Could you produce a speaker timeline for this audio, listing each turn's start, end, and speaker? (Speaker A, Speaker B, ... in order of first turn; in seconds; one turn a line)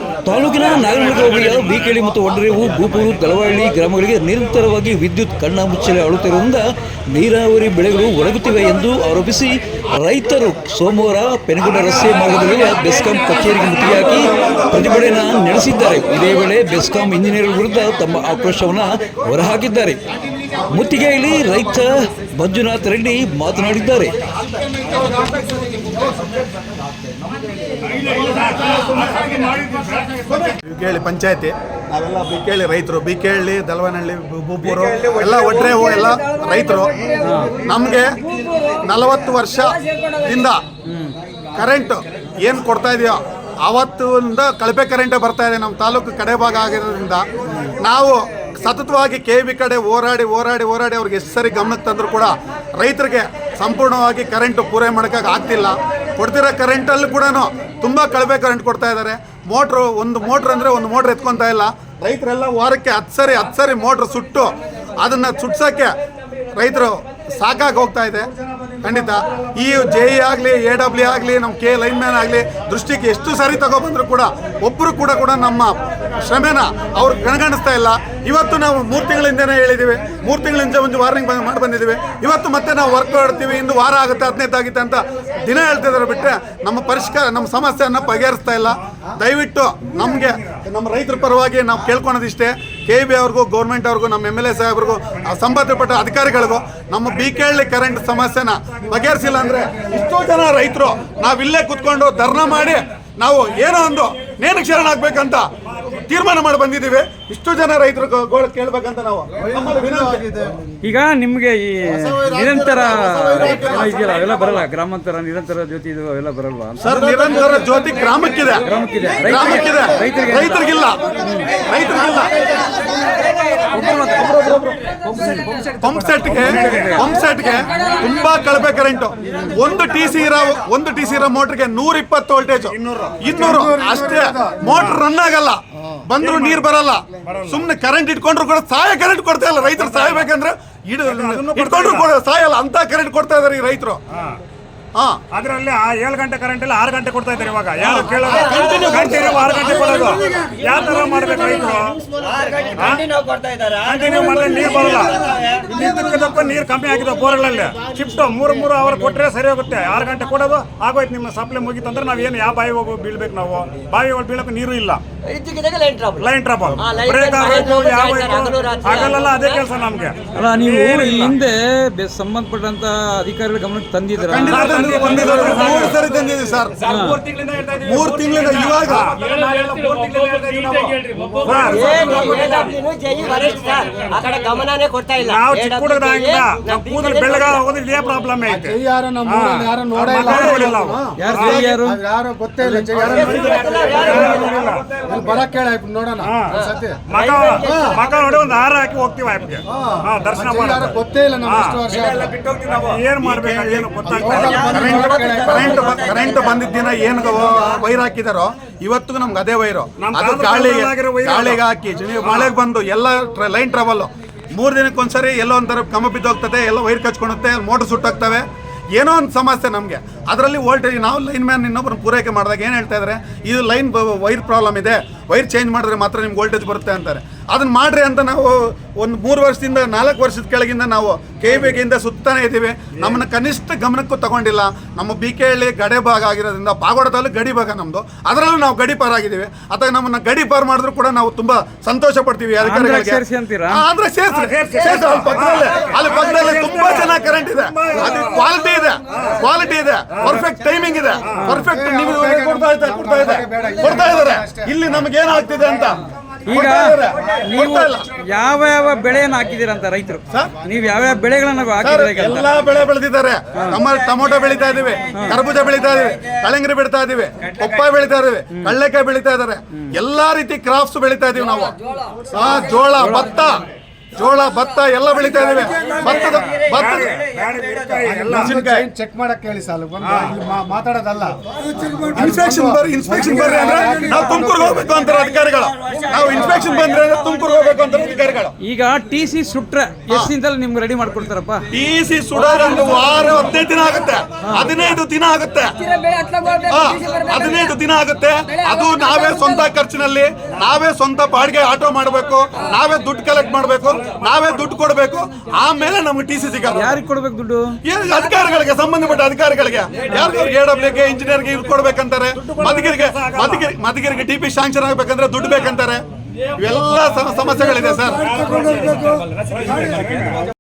Speaker A: 0.2-6.6
Speaker A: 7.1-20.0
Speaker A: 20.7-24.2
Speaker B: 30.3-37.0
Speaker C: 37.2-37.6
Speaker B: 37.5-40.6
Speaker B: 41.6-47.2
Speaker B: 47.8-65.9
Speaker B: 66.5-68.3
Speaker B: 68.8-110.5
Speaker C: 110.8-117.0
Speaker B: 111.9-114.3
Speaker B: 116.8-118.7
Speaker C: 118.6-120.7
Speaker B: 119.2-122.5
Speaker C: 121.2-121.5
Speaker C: 123.7-124.3
Speaker B: 123.8-125.0
Speaker C: 125.1-125.4
Speaker B: 125.7-144.0
Speaker C: 126.3-127.0
Speaker D: 132.7-133.1
Speaker E: 133.3-134.7
Speaker D: 136.2-136.6
Speaker D: 137.2-137.6
Speaker D: 139.8-140.2
Speaker D: 141.1-142.1
Speaker B: 144.9-145.2
Speaker D: 145.3-152.0
Speaker B: 147.8-150.2
Speaker F: 148.0-151.1
Speaker F: 152.1-155.7
Speaker D: 152.8-153.0
Speaker D: 153.8-165.0
Speaker F: 165.2-169.6
Speaker D: 166.2-171.3
Speaker C: 170.3-174.9
Speaker B: 174.2-176.8
Speaker D: 174.5-176.0
Speaker C: 176.9-177.2
Speaker B: 177.8-179.2
Speaker D: 178.6-182.3
Speaker F: 181.6-187.6
Speaker D: 185.2-188.7
Speaker E: 188.4-197.0
Speaker D: 189.3-189.6
Speaker B: 189.9-191.2
Speaker D: 190.2-191.6
Speaker C: 191.2-192.0
Speaker F: 192.9-194.7
Speaker D: 193.7-194.8
Speaker F: 196.5-198.4
Speaker D: 197.1-200.9
Speaker E: 197.6-198.0
Speaker E: 199.8-202.3
Speaker D: 201.5-201.8
Speaker D: 202.4-204.9
Speaker B: 203.2-218.4
Speaker E: 204.0-205.8
Speaker F: 204.3-206.7
Speaker D: 210.0-211.6
Speaker B: 218.9-258.1
Speaker C: 242.6-243.8
Speaker D: 244.3-248.4
Speaker C: 251.4-251.7
Speaker E: 251.7-254.7
Speaker C: 256.4-262.5
Speaker B: 261.8-271.8
Speaker C: 265.1-265.4
Speaker B: 272.3-277.2
Speaker C: 273.0-273.4
Speaker D: 276.6-278.5
Speaker E: 278.0-281.4
Speaker B: 278.3-278.9
Speaker E: 282.0-284.9
Speaker B: 282.1-288.6
Speaker F: 285.9-286.6
Speaker C: 288.6-291.6
Speaker B: 291.7-295.9
Speaker B: 296.6-306.9
Speaker C: 306.7-307.7
Speaker B: 307.8-318.3
Speaker D: 312.4-313.6
Speaker D: 318.2-320.4